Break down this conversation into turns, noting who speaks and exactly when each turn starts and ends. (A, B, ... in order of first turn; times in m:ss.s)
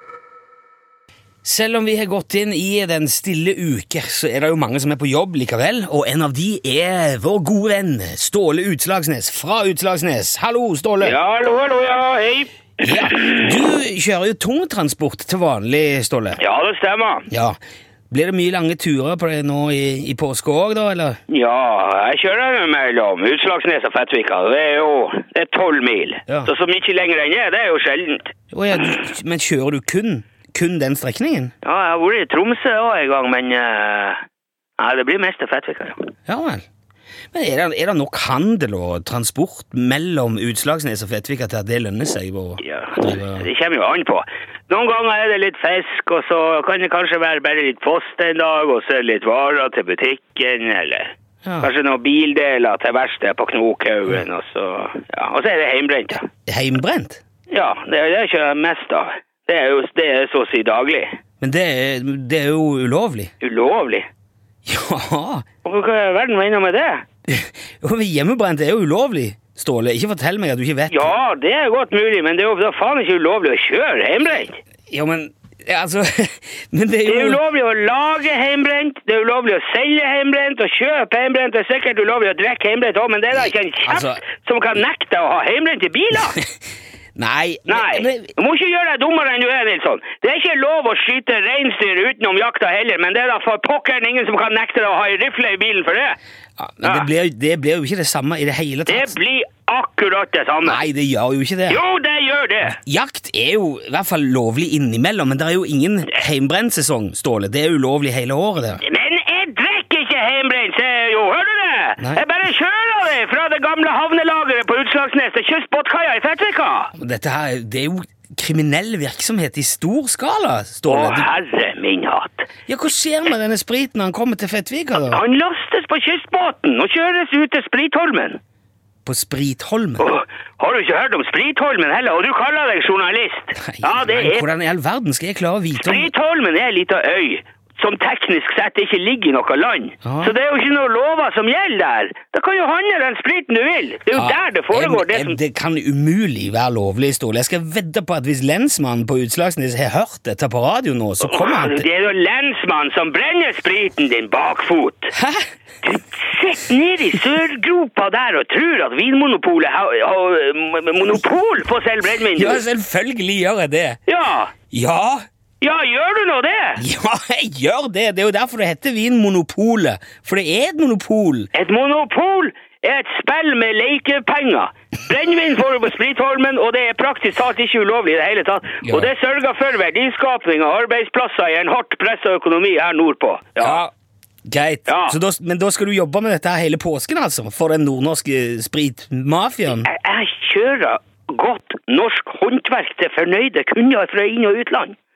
0:01.4-0:11.2 A
0:11.0-0:13.6 B
0:12.8-0:16.4 A
0:16.4-0:17.3 B
0:17.3-0:17.6 A
0:18.1-0:21.2 A
0:21.3-0:29.0 B
0:28.5-0:31.5 A
0:31.6-0:34.2 B
0:34.8-0:36.1 B
0:36.3-0:36.6 A
0:37.3-0:43.5 A
0:42.6-0:56.2 B
0:51.4-0:51.7 A
0:56.5-0:57.2 A
0:57.5-1:01.2 B
1:01.4-1:03.3 A
1:03.4-1:04.1 B
1:04.7-1:05.5 A
1:05.6-1:07.0 B
1:07.3-1:11.1 A
1:10.9-1:14.6 B
1:14.9-1:17.4 A
1:17.1-1:26.4 B
1:23.8-1:24.2 A
1:27.2-1:28.3 A
1:27.7-1:36.2 B
1:36.6-1:39.2 A
1:36.8-1:37.1 B
1:38.9-1:40.8 B
1:40.6-1:41.8 A
1:41.7-1:42.8 B
1:42.6-1:48.8 A
1:48.8-1:56.9 B
1:56.9-2:01.3 A
2:00.9-2:02.5 B
2:02.7-2:05.2 A
2:05.0-2:08.4 B
2:09.0-2:10.1 A
2:10.0-2:14.4 B
2:13.6-2:16.1 A
2:15.8-2:25.4 B
2:20.0-2:20.4 A
2:24.1-2:31.8 A
2:31.2-2:35.1 B
2:35.2-2:35.4 A
2:35.8-2:42.6 B
2:42.3-2:44.0 A
2:44.1-2:44.5 B
2:44.7-2:45.2 A
2:45.6-2:46.8 B
2:46.8-2:51.5 A
2:51.5-3:03.8 B
2:58.8-2:59.1 A
3:03.6-3:03.9 A
3:04.5-3:09.9 A
3:04.9-3:05.2 B
3:09.8-3:15.0 B